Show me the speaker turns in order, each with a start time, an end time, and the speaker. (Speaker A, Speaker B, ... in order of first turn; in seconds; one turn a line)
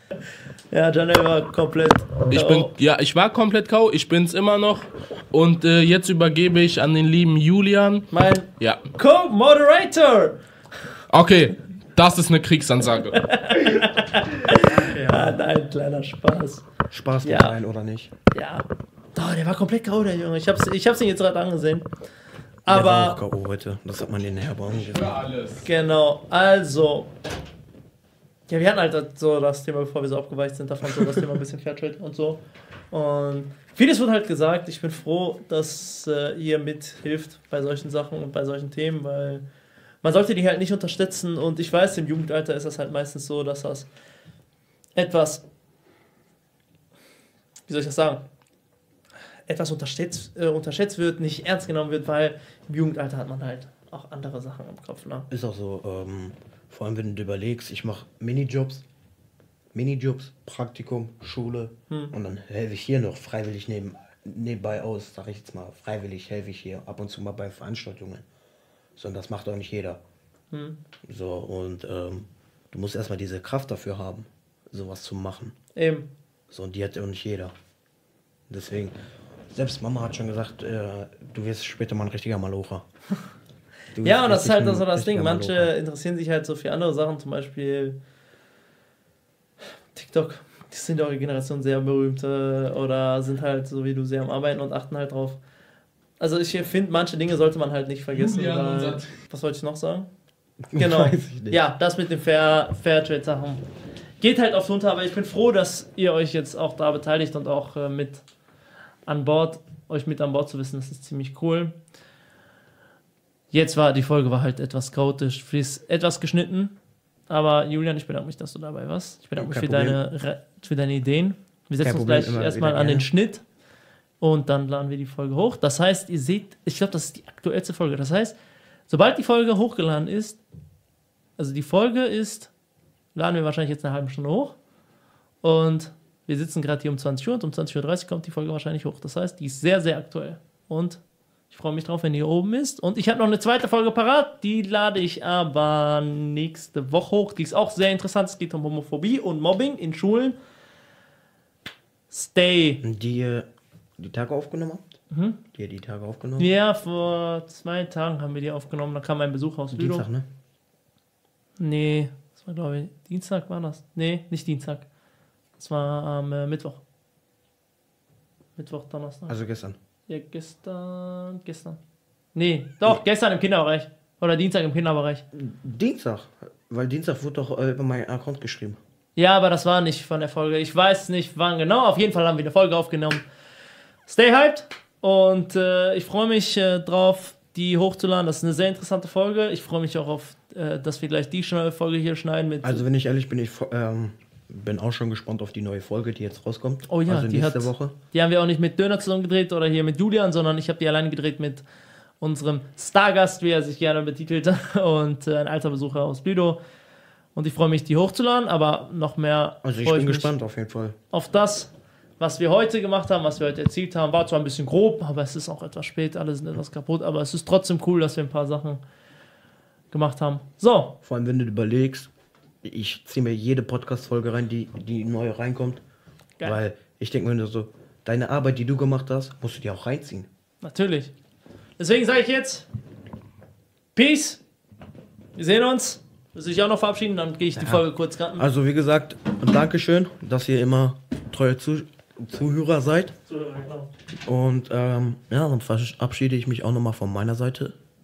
Speaker A: 0.7-2.7
Speaker B: 2.3-8.9
Speaker A: 8.1-10.4
Speaker B: 11.1-13.3
Speaker A: 13.2-16.7
Speaker C: 16.9-18.1
Speaker A: 17.2-17.6
Speaker A: 18.3-21.9
Speaker A: 22.7-23.2
Speaker C: 22.7-25.2
Speaker B: 24.7-25.7
Speaker A: 25.6-27.1
Speaker A: 28.5-39.4
Speaker A: 40.0-43.9
Speaker A: 45.0-45.4
Speaker A: 47.7-48.2
Speaker A: 49.5-55.3
Speaker C: 55.3-58.9
Speaker C: 59.7-68.2
Speaker C: 69.0-70.0
Speaker A: 70.5-70.8
Speaker C: 71.1-75.5
Speaker A: 75.8-76.1
Speaker C: 76.5-77.5
Speaker C: 78.5-79.0
Speaker C: 79.5-82.8
Speaker C: 84.0-85.7
Speaker A: 84.0-88.0
Speaker A: 89.9-95.4
Speaker A: 96.2-100.1
Speaker B: 98.1-99.1
Speaker C: 100.7-101.6
Speaker A: 100.8-103.6
Speaker A: 104.2-108.2
Speaker A: 109.1-111.8
Speaker A: 113.5-116.8
Speaker A: 117.3-123.4
Speaker C: 119.4-120.0
Speaker C: 121.8-123.1
Speaker A: 124.2-128.3
Speaker A: 128.9-130.4
Speaker A: 131.4-132.5
Speaker A: 133.1-134.6
Speaker A: 135.4-150.4
Speaker A: 152.1-152.8
Speaker C: 152.8-153.5
Speaker C: 154.0-154.9
Speaker A: 155.1-155.4
Speaker C: 155.5-156.5
Speaker A: 156.4-160.1
Speaker C: 159.7-160.3
Speaker A: 161.6-164.8
Speaker A: 165.6-166.8
Speaker A: 168.6-169.4
Speaker C: 169.3-169.8
Speaker A: 170.1-171.8
Speaker A: 172.3-175.2
Speaker C: 175.3-178.8
Speaker A: 179.2-183.2
Speaker A: 184.1-192.8
Speaker C: 192.6-197.9
Speaker A: 196.9-201.7
Speaker A: 202.2-206.6
Speaker A: 207.3-210.3
Speaker C: 209.6-211.0
Speaker A: 211.1-218.8
Speaker A: 219.9-220.9
Speaker C: 221.0-222.1
Speaker C: 222.6-225.8
Speaker C: 226.4-230.3
Speaker A: 230.6-231.1
Speaker A: 231.8-232.7
Speaker A: 233.9-234.4
Speaker A: 235.3-238.5
Speaker C: 237.6-243.2
Speaker A: 243.3-243.9
Speaker C: 244.2-247.8